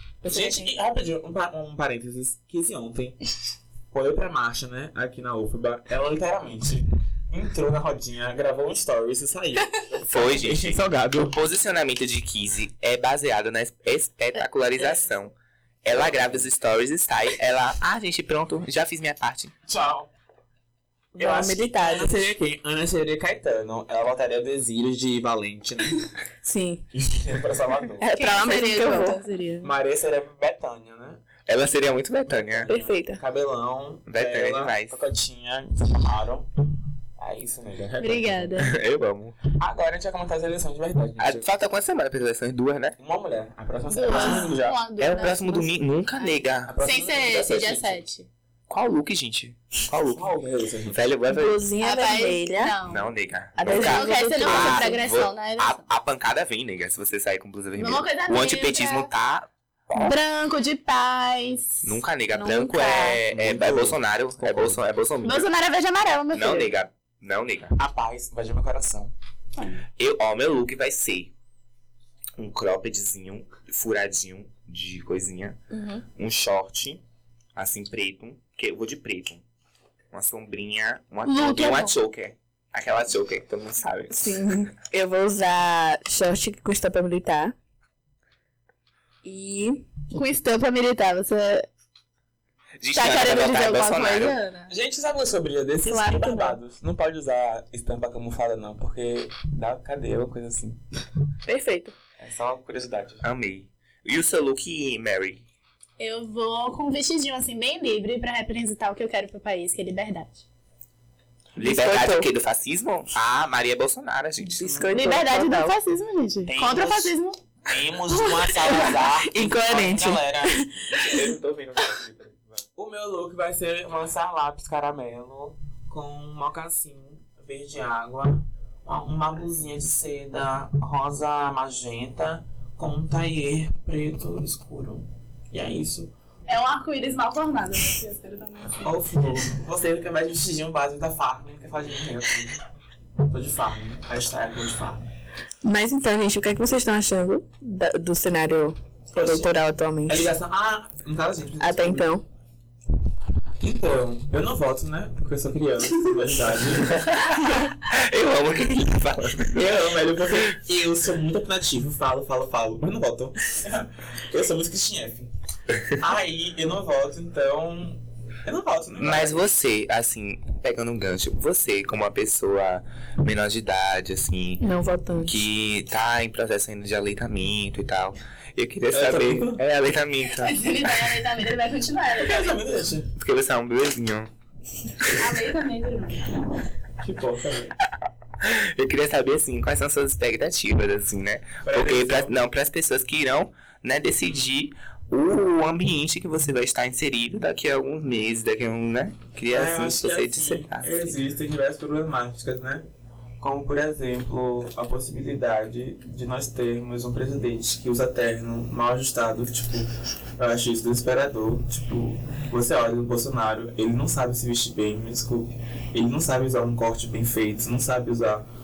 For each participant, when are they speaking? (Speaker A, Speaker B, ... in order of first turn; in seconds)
Speaker A: 0.2-0.7, 21.1-22.2, 26.4-26.9, 28.0-29.2, 32.7-33.2, 51.3-52.8, 53.5-55.0, 62.4-63.2, 75.7-76.0, 84.1-87.5, 89.2-89.8, 101.5-101.9, 111.6-112.3, 114.5-115.7, 118.1-121.3, 145.6-150.3, 151.6-152.2, 174.6-175.4
Speaker B: 0.2-3.2, 3.9-11.4, 15.9-16.4, 19.7-20.1, 21.1-26.1, 26.9-28.1, 29.6-31.2, 32.3-36.5, 37.2-38.6, 39.5-41.5, 43.0-44.8, 46.6-48.0, 50.0-51.0, 63.3-64.8, 67.8-69.1, 94.7-100.8, 102.2-103.2, 116.5-117.1, 117.6-136.1, 138.8-142.6, 143.2-145.1, 149.1-152.2, 153.6-157.0, 159.5-165.3, 165.9-169.5, 178.9-179.6, 182.1-183.1, 187.0-187.7, 191.6-192.4, 199.5-202.8, 203.4-218.5
Speaker C: 10.1-19.5, 31.4-32.7, 34.1-35.0, 38.6-39.4, 41.2-43.0, 45.0-46.7, 48.7-50.3, 50.9-51.6, 52.9-60.1, 61.8-65.5, 66.3-67.8, 70.0-71.3, 72.4-75.6, 76.1-77.0, 77.5-79.4, 80.1-84.6, 92.8-94.3, 103.2-105.4, 111.6-114.8, 156.9-159.7, 168.9-174.7, 175.2-180.7, 183.1-184.3, 188.4-201.2
Speaker D: 28.1-29.7, 38.0-38.8, 43.9-48.3, 51.8-53.1, 53.6-55.8, 57.8-59.1, 59.9-62.0, 62.6-63.0, 65.2-66.7, 69.6-69.8, 81.2-82.0, 90.1-91.7, 92.9-94.7, 95.8-96.6, 106.0-110.4, 114.8-117.4, 136.5-139.0, 180.3-182.8, 185.1-186.4